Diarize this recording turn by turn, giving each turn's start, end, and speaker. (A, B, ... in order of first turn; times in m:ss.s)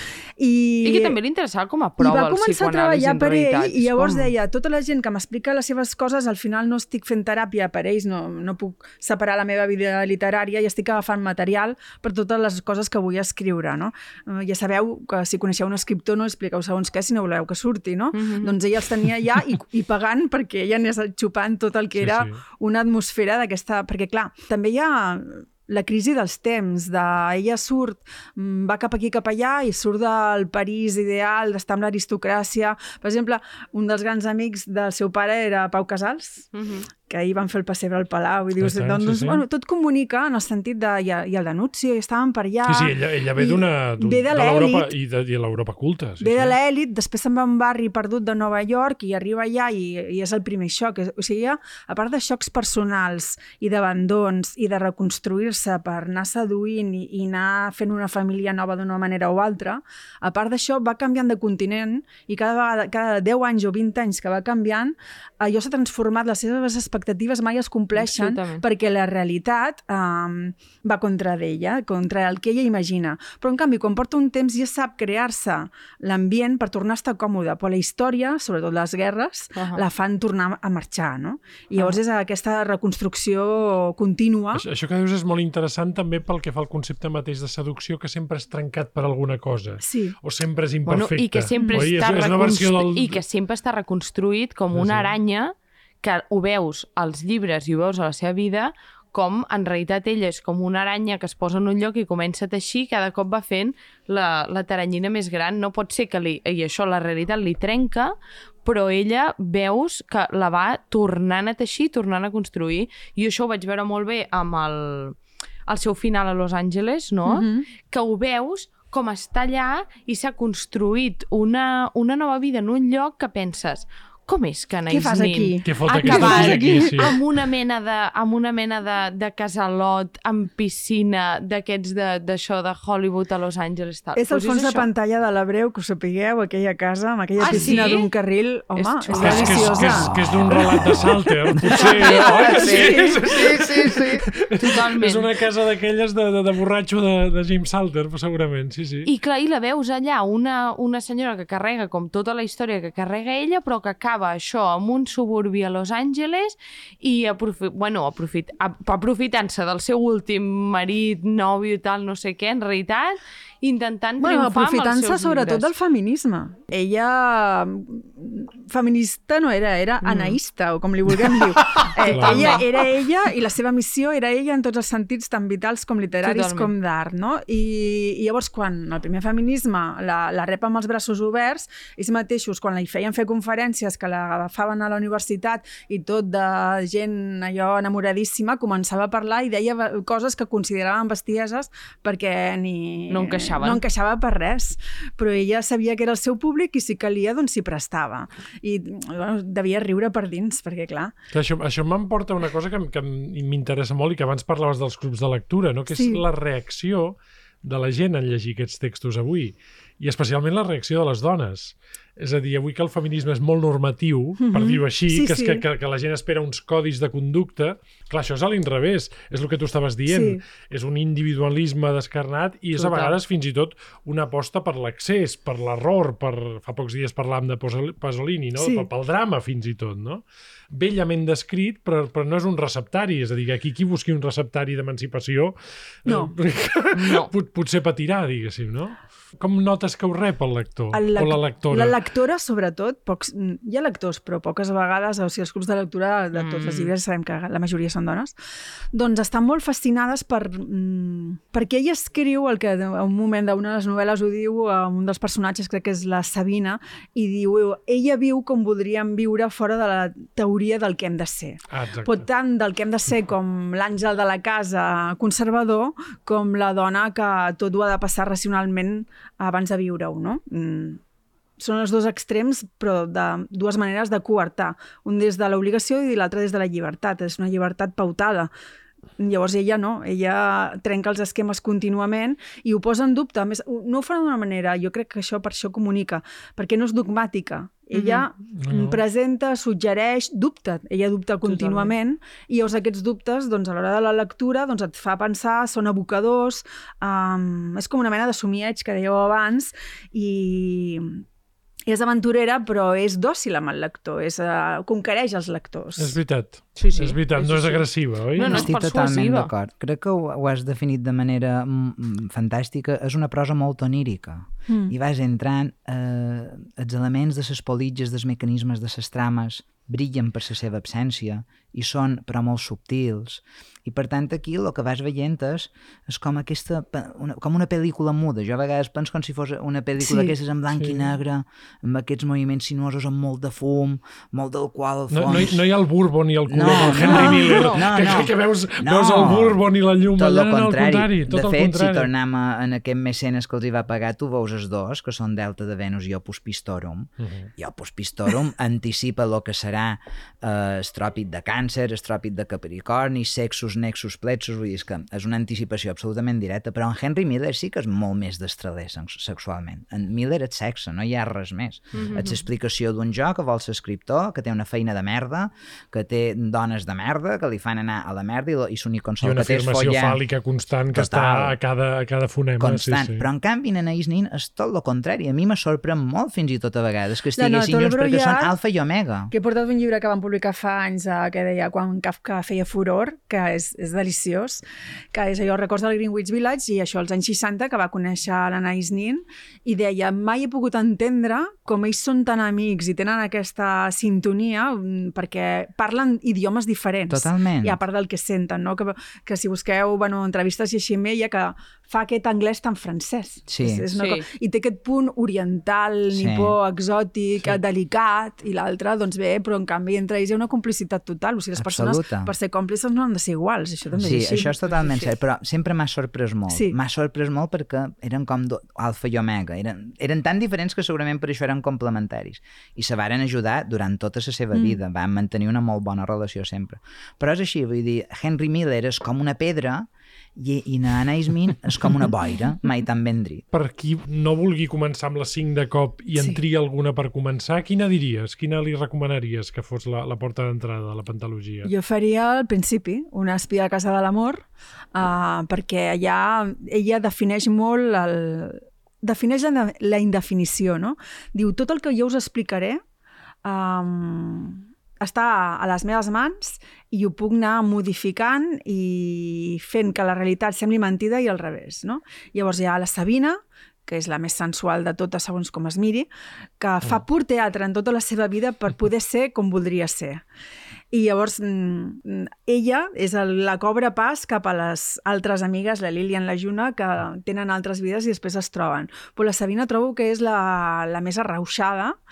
0:00.4-0:01.2 A
0:00.8-0:04.3 B
0:02.0-0:36.5 A
0:18.1-0:18.6 B
0:22.0-0:22.4 C
0:36.5-0:36.9 B
0:37.1-0:44.9 A
0:38.6-0:39.4 C
0:42.6-0:46.6 C
0:46.2-1:24.6 A
1:08.0-1:08.6 B
1:19.6-1:19.8 B
1:24.5-1:33.2 C
1:29.8-1:30.2 A
1:30.9-2:14.9 B
1:31.6-1:31.9 A
1:34.7-1:35.1 C
1:57.2-1:57.7 A
2:04.9-2:07.1 A
2:05.6-2:07.2 C
2:14.2-2:20.1 A
2:17.4-2:18.1 B
2:17.5-2:17.8 C
2:18.7-2:20.0 B
2:19.2-2:29.1 C
2:21.6-2:24.2 D
2:21.8-2:22.9 B
2:22.5-2:23.1 A
2:24.6-2:25.3 B
2:29.1-2:45.7 B
2:44.2-3:21.1 A
2:50.0-2:50.4 B
2:52.0-2:52.6 C
2:52.1-2:52.7 B
2:56.2-2:56.7 B
3:13.1-3:13.8 B
3:21.3-4:02.0 C
3:25.9-3:26.2 A
3:34.4-3:35.6 A
3:40.1-3:40.4 A
3:42.8-3:43.1 B
3:48.6-3:48.9 A
3:56.1-3:56.3 A
3:57.0-3:57.3 B
4:00.9-4:08.4 A
4:06.3-4:06.9 B
4:08.9-4:31.0 A
4:21.7-4:22.3 C
4:31.6-4:38.5 A
4:39.2-5:01.2 A
4:47.9-4:48.3 B
4:48.5-4:49.0 C
4:51.4-4:51.9 B
5:01.9-5:06.2 A
5:06.0-5:08.6 C
5:06.8-5:09.5 B
5:08.4-5:08.6 A
5:08.4-5:35.6 D
5:14.7-5:14.9 A
5:30.0-5:30.3 A
5:30.7-5:31.1 C
5:35.1-5:42.1 C
5:36.5-6:10.2 D
5:37.1-5:37.4 A
5:37.5-5:38.2 B
5:47.2-5:47.5 C
6:02.0-6:02.4 B
6:09.2-6:13.3 C
6:10.9-6:11.6 D
6:12.6-6:19.3 D
6:17.4-6:18.5 A
6:19.3-6:54.9 A
6:37.1-6:37.8 D
6:43.5-6:43.9 D
6:43.9-6:44.3 B
6:46.1-6:46.6 D
6:51.6-6:52.3 D
6:53.9-6:54.4 C
6:54.0-7:13.4 D
6:56.5-6:56.8 A
7:04.5-7:04.8 A
7:13.5-7:21.7 C
7:21.6-7:32.8 A
7:33.4-7:46.1 A
7:46.6-7:50.2 A
7:50.9-8:02.0 A